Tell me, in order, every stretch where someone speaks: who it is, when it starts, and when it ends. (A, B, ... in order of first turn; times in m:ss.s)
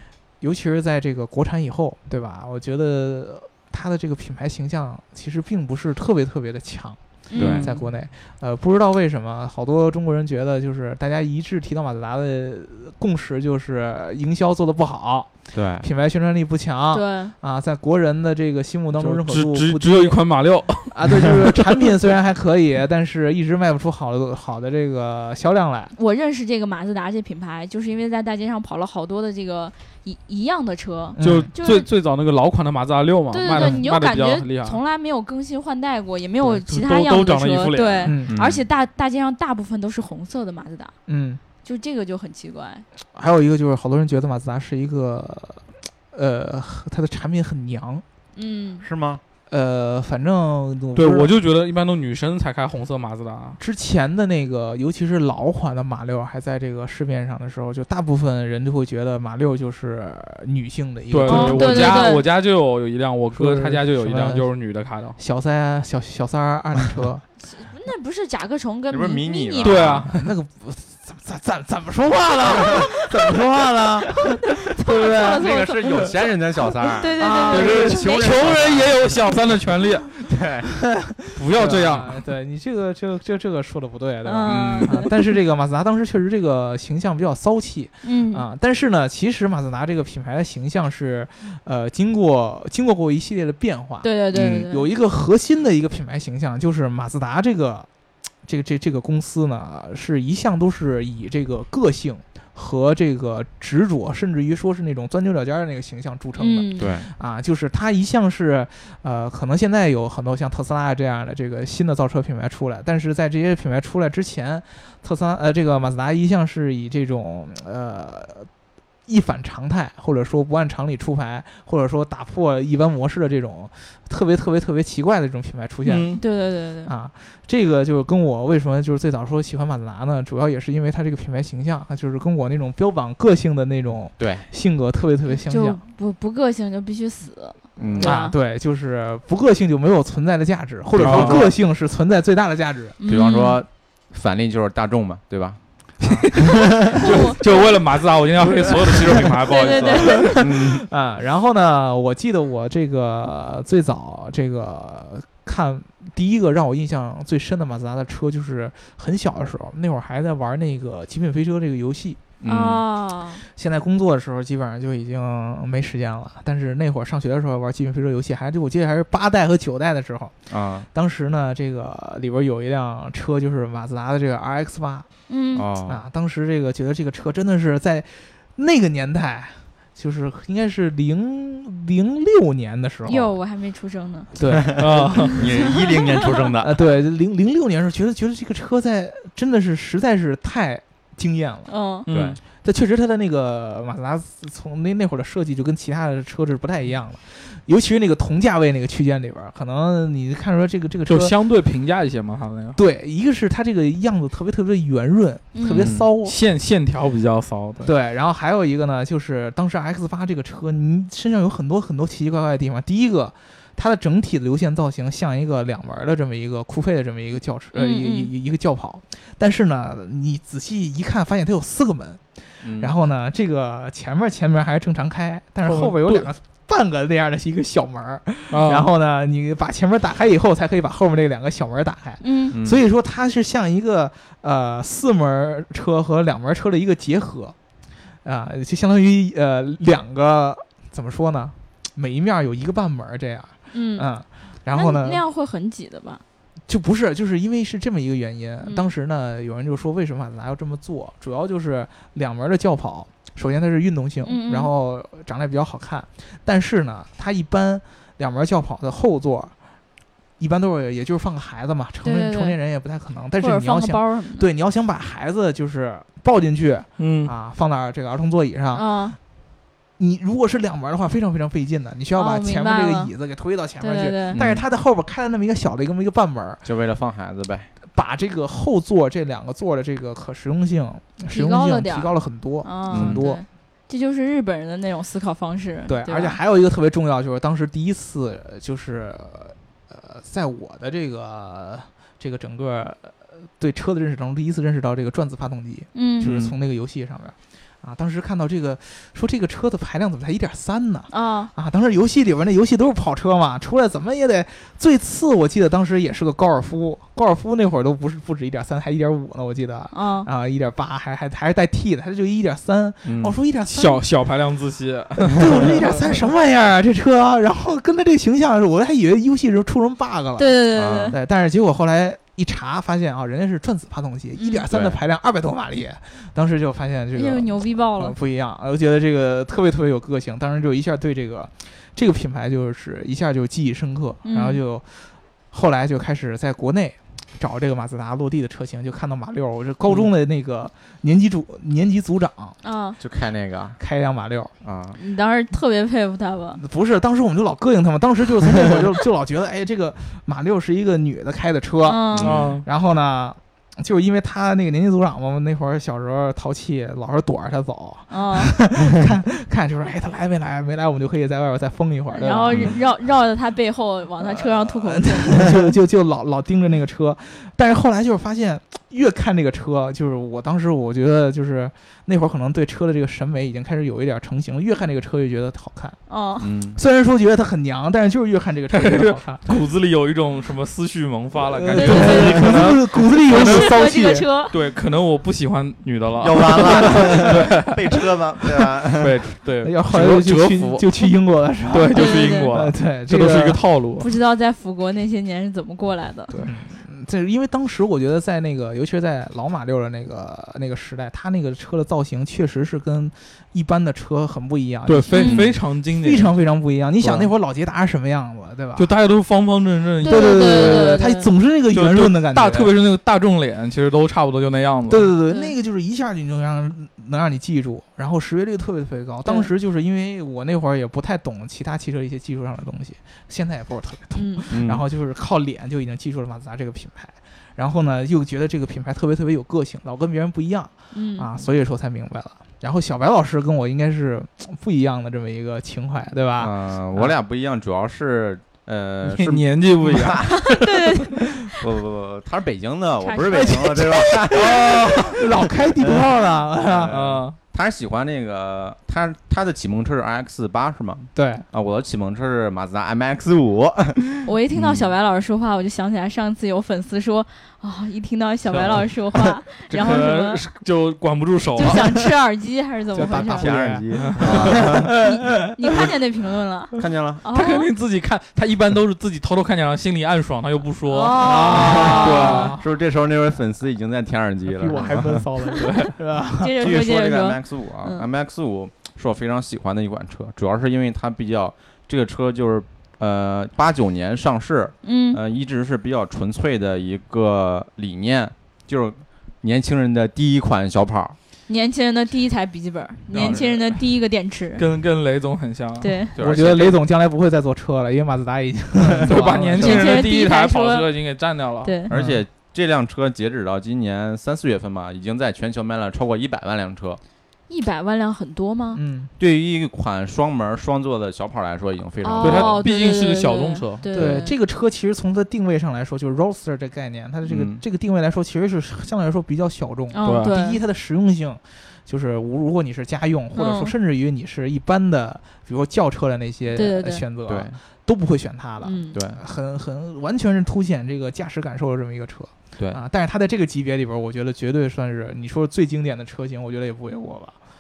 0:00.4-0:07.0 A
0:07.3-0:07.6 B
0:07.4-0:07.6 C
0:07.4-0:07.9 D
0:07.6-0:20.2 A
0:15.5-0:15.9 C
0:16.9-0:17.3 B
0:19.0-0:21.8 D
0:20.9-0:25.9 A
0:26.0-0:31.9 B
0:31.1-0:31.5 A
0:31.2-0:34.8 D
0:33.3-0:40.9 B
0:33.5-0:33.8 A
0:36.4-0:38.2 D
0:38.0-0:38.4 A
0:38.3-0:38.6 C
0:41.1-0:41.4 A
0:41.6-0:42.8 B
0:43.1-0:48.0 A
0:48.4-0:48.8 B
0:48.8-0:49.2 C
0:49.5-0:51.3 A
0:50.9-0:53.6 D
0:53.6-1:02.2 A
1:01.1-1:05.2 D
1:01.3-1:02.2 B
1:03.3-1:04.5 A
1:05.2-1:07.2 A
1:07.4-1:09.9 B
1:08.9-1:10.1 C
1:09.6-1:10.2 D
1:10.1-1:13.8 A
1:12.6-1:14.2 C
1:14.4-1:16.1 B
1:14.8-1:19.2 C
1:16.9-1:18.5 B
1:17.2-1:17.5 A
1:17.3-1:20.2 D
1:20.3-1:20.7 C
1:20.9-1:37.9 A
1:21.3-1:22.2 D
1:24.2-1:25.1 B
1:24.4-1:25.0 C
1:28.0-1:28.5 B
1:34.0-1:34.9 B
1:34.3-1:34.7 C
1:38.4-1:58.5 A
1:46.4-1:46.9 B
1:46.8-1:47.1 C
1:59.1-2:06.3 A
2:05.8-2:06.2 D
2:06.2-2:06.9 B
2:06.8-2:15.8 A
2:14.2-2:14.5 C
2:15.3-2:18.3 B
2:17.8-2:18.1 C
2:18.0-2:23.0 A
2:21.0-2:21.5 C
2:21.0-2:21.5 D
2:23.0-2:23.6 B
2:23.1-2:26.2 C
2:26.0-2:26.4 A
2:26.9-2:27.8 B
2:27.0-2:30.2 D
2:28.5-2:29.4 A
2:29.5-2:30.4 B
2:29.6-2:30.8 C
2:30.0-2:42.2 A
2:42.4-2:42.8 C
2:42.4-2:43.4 B
2:43.4-2:55.1 A
2:50.5-2:50.9 C
2:55.3-2:55.6 B
2:55.5-2:56.0 C
2:55.8-3:03.3 A
3:03.0-3:04.3 B
3:04.3-3:05.3 A
3:04.4-3:06.8 C
3:04.8-3:05.4 D
3:05.5-3:06.2 B
3:06.6-3:11.7 A
3:11.7-3:12.1 B
3:12.1-3:12.4 D
3:12.1-3:12.4 C
3:12.6-3:21.3 A
3:21.1-3:22.8 D
3:22.7-3:26.4 A
3:25.5-3:25.9 B
3:25.7-3:26.1 C
3:26.2-3:27.9 D
3:27.8-3:57.6 A
3:37.7-3:38.3 B
3:42.6-3:42.9 C
3:45.6-3:46.3 D
3:48.5-3:48.9 D
3:52.2-3:52.6 B
3:52.5-3:52.8 C
3:58.2-4:05.2 A
4:03.7-4:04.0 B
4:04.7-4:06.2 B
4:06.7-4:19.5 A
4:08.6-4:08.9 B
4:14.2-4:14.7 B
4:20.4-4:29.2 A
4:22.0-4:22.6 B
4:23.4-4:24.5 B
4:27.0-4:27.3 D
4:28.7-4:29.2 B
4:30.0-4:36.6 A
4:32.2-4:33.1 B
4:33.8-4:34.4 B
4:34.3-4:34.6 C
4:36.6-4:37.7 C
4:37.9-4:43.4 A
4:41.3-4:46.4 B
4:42.9-4:43.2 C
4:45.9-5:14.0 A
4:55.9-4:56.3 B
4:56.2-4:56.5 C
5:01.1-5:01.5 B
5:09.9-5:10.3 B
5:13.0-5:13.3 C
5:13.7-5:16.1 D
5:15.3-5:42.6 A
5:20.4-5:21.2 B
5:20.7-5:21.2 C
5:24.4-5:24.6 B
5:24.7-5:25.0 C
5:27.1-5:28.1 B
5:34.2-5:34.6 B
5:42.6-5:43.0 B
5:43.0-5:43.8 C
5:43.8-5:44.5 A
5:44.6-5:45.0 C
5:44.9-5:46.6 B
5:46.6-6:02.8 A
5:51.8-5:52.3 B
5:52.1-5:52.5 C
5:52.2-5:52.6 D
5:58.1-5:58.5 B
6:02.1-6:05.6 B
6:04.2-6:16.0 A
6:16.1-6:16.5 B
6:16.4-6:16.8 C
6:16.7-6:19.5 A
6:18.7-6:23.7 D
6:21.5-6:24.3 A
6:21.8-6:22.6 B
6:23.3-6:24.6 B
6:24.5-6:27.7 D
6:26.2-6:29.1 C
6:29.0-6:30.9 D
6:29.6-6:33.6 A
6:31.7-6:34.1 D
6:31.9-6:32.5 B
6:34.0-6:36.4 B
6:36.3-6:48.9 A
6:44.8-6:46.3 D
6:45.1-6:45.4 B
6:47.0-6:47.3 D
6:48.8-6:51.0 D
6:50.0-6:52.7 A
6:50.0-6:51.3 B
6:51.7-6:55.1 D
6:54.9-7:17.1 A
6:55.3-6:55.5 B
6:59.2-6:59.5 B
7:04.1-7:04.5 B
7:04.5-7:04.8 C
7:10.9-7:11.3 B
7:16.4-7:20.4 C
7:19.1-7:19.3 A
7:19.2-7:20.5 D
7:20.5-7:21.3 B
7:21.6-7:25.2 C
7:23.0-7:23.9 B
7:23.4-7:27.0 A
7:24.3-7:25.2 D
7:25.8-7:26.1 C
7:26.6-7:34.9 C
7:26.9-7:27.4 D
7:31.1-7:31.4 A
7:34.2-7:40.4 B
7:38.5-7:38.9 D
7:39.7-7:41.8 D
7:41.5-7:43.5 B
7:42.9-7:45.3 A
7:43.2-7:44.9 C
7:43.9-7:44.5 D
7:45.0-7:47.7 B
7:46.8-7:47.2 C
7:47.3-7:52.6 D
7:50.8-7:52.5 B
7:51.2-7:52.7 A
7:51.6-7:55.2 C
7:54.5-7:56.7 A
7:55.6-7:55.9 D
7:56.4-7:58.0 B
7:56.6-8:11.2 C
8:04.8-8:05.2 B
8:11.5-8:14.6 B
8:13.1-8:13.8 D
8:13.1-8:13.4 C
8:14.6-8:15.9 D
8:15.8-8:16.2 B
8:16.1-8:16.8 C
8:16.1-8:20.0 A
8:18.8-8:19.3 C
8:19.0-8:21.8 D
8:19.6-8:20.9 B
8:21.6-8:21.9 B
8:21.9-8:27.0 C
8:21.9-8:22.2 A
8:27.5-8:28.8 B
8:28.7-8:29.1 A
8:29.2-8:32.6 C
8:32.0-8:34.4 B
8:32.2-8:33.9 D
8:33.9-8:57.4 A
8:37.2-8:37.6 C
8:39.9-8:40.6 B
8:40.0-8:40.3 D
8:43.3-8:43.7 B
8:46.5-8:47.0 B
8:47.3-8:47.6 C
8:48.6-8:49.0 B
8:48.9-8:49.2 C